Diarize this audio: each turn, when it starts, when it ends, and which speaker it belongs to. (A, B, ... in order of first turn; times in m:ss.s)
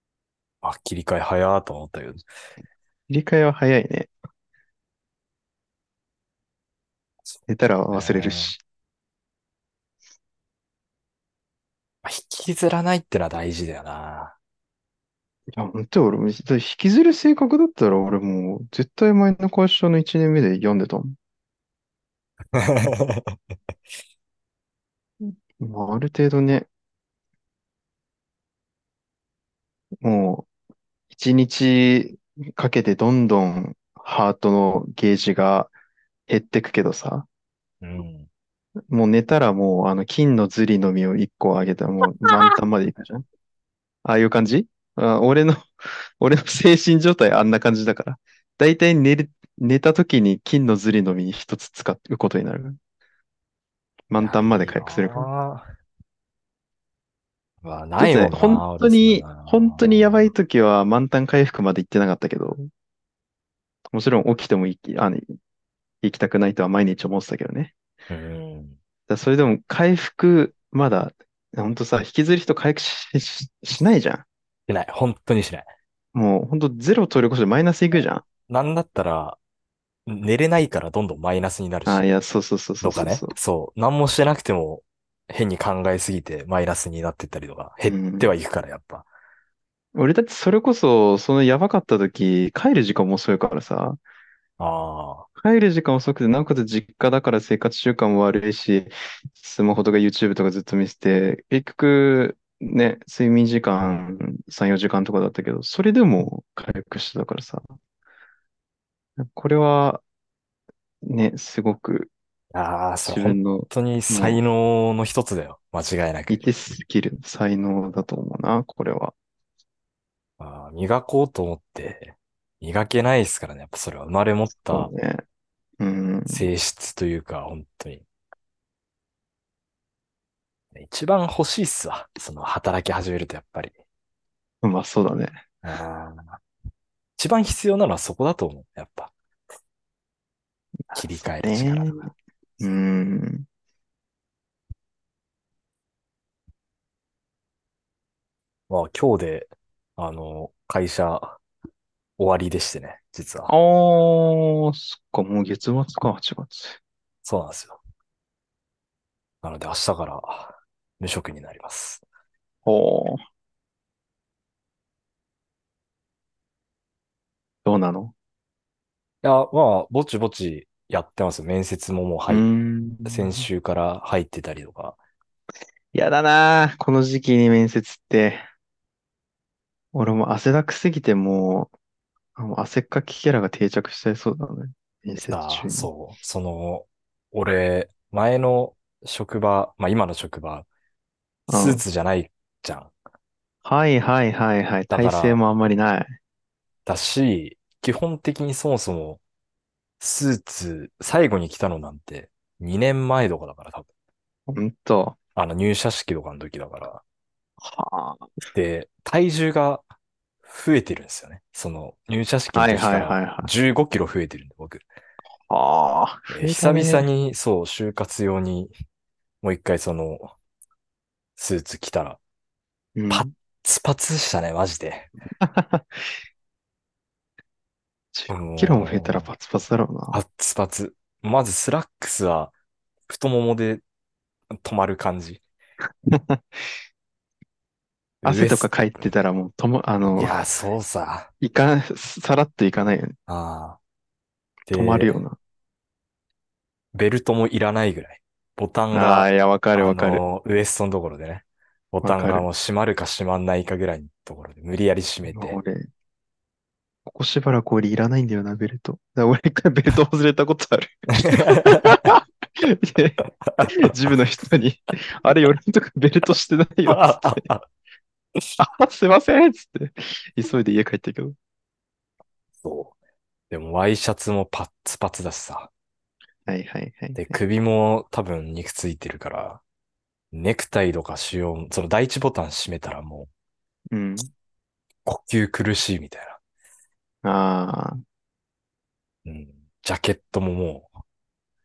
0:00.6-0:02.2 A
0:03.1-0:04.1 B
0:07.5-0:08.6 B
0:07.9-0:08.5 A
0:12.0-0:14.3 A
0:15.5-0:21.2 B
0:22.5-0:23.4 A
0:25.2-0:26.7 B
0:30.0-0:30.5 B
0:31.1-0:35.7 B
0:36.3-0:37.3 B
0:37.8-0:38.3 A
0:38.9-0:43.2 B
0:44.0-0:52.8 B
0:54.1-0:55.3 B
0:54.2-0:55.7 A
0:57.6-1:00.3 A
0:58.0-1:02.7 B
1:03.9-1:05.2 B
1:06.0-1:07.7 B
1:08.1-1:08.8 A
1:09.1-1:14.2 B
1:14.7-1:15.7 A
1:16.1-1:18.2 B
1:18.5-1:19.4 A
1:20.1-1:22.2 A
1:21.8-1:23.3 B
1:22.8-1:29.0 A
1:27.8-1:28.3 B
1:29.9-1:34.0 B
1:34.6-1:35.3 A
1:35.4-1:47.6 B
1:49.2-1:50.0 B
1:51.0-1:52.1 B
1:52.5-1:56.5 A
1:53.0-1:54.4 B
1:56.3-1:59.1 B
2:00.4-2:04.9 A
2:04.7-2:05.2 B
2:05.8-2:06.4 B
2:06.3-2:08.0 A
2:10.7-2:13.7 A
2:14.6-2:15.4 B
2:15.6-2:16.4 A
2:17.2-2:19.1 A
2:20.9-2:23.4 B
2:20.9-2:21.9 A
2:28.7-2:31.4 A
2:32.2-2:33.5 A
2:33.5-2:36.8 B
2:37.2-2:37.8 A
2:39.4-2:42.0 A
2:42.6-2:43.2 B
2:47.6-2:48.1 B
2:49.2-2:52.4 A
2:52.3-2:53.4 B
2:53.0-2:55.0 A
2:55.9-2:58.4 B
2:59.9-3:01.7 B
3:02.4-3:05.9 B
3:05.2-3:10.6 A
3:11.5-3:12.9 A
3:11.5-3:11.8 B
3:13.6-3:16.2 B
3:14.9-3:15.4 A
3:16.8-3:19.2 A
3:20.0-3:23.9 A
3:24.5-3:25.2 B
3:25.4-3:27.0 A
3:27.6-3:28.4 B
3:28.5-3:29.8 A
3:30.4-3:34.8 A
3:32.5-3:33.5 B
3:35.5-3:37.0 B
3:36.3-3:38.7 A
3:39.4-3:40.3 A
3:41.4-3:42.2 A
3:43.0-3:43.3 B
3:43.1-3:45.1 A
3:45.4-3:45.8 B
3:48.1-3:50.2 B
3:48.3-3:49.3 A
3:50.1-3:52.5 A
3:53.1-3:53.8 A
3:54.5-3:55.4 A
3:56.1-3:56.4 B
3:58.2-3:58.7 A
3:58.2-4:00.4 B
4:00.2-4:01.3 A
4:01.4-4:03.1 B
4:03.3-4:03.8 A
4:04.7-4:05.2 A
4:04.7-4:05.4 B
4:06.9-4:15.6 A
4:08.9-4:10.2 B
4:12.0-4:12.4 B
4:15.3-4:15.9 B
4:17.0-4:27.4 B
4:21.3-4:22.1 A
4:23.4-4:23.9 A
4:26.9-4:27.6 A
4:28.6-4:31.4 B
4:32.6-4:32.9 A
4:33.5-4:35.7 A
4:36.5-4:37.4 B
4:37.2-4:39.6 A
4:40.3-4:43.3 A
4:43.9-4:44.3 B
4:45.0-4:46.4 A
4:47.2-4:48.0 B
4:49.2-4:50.9 A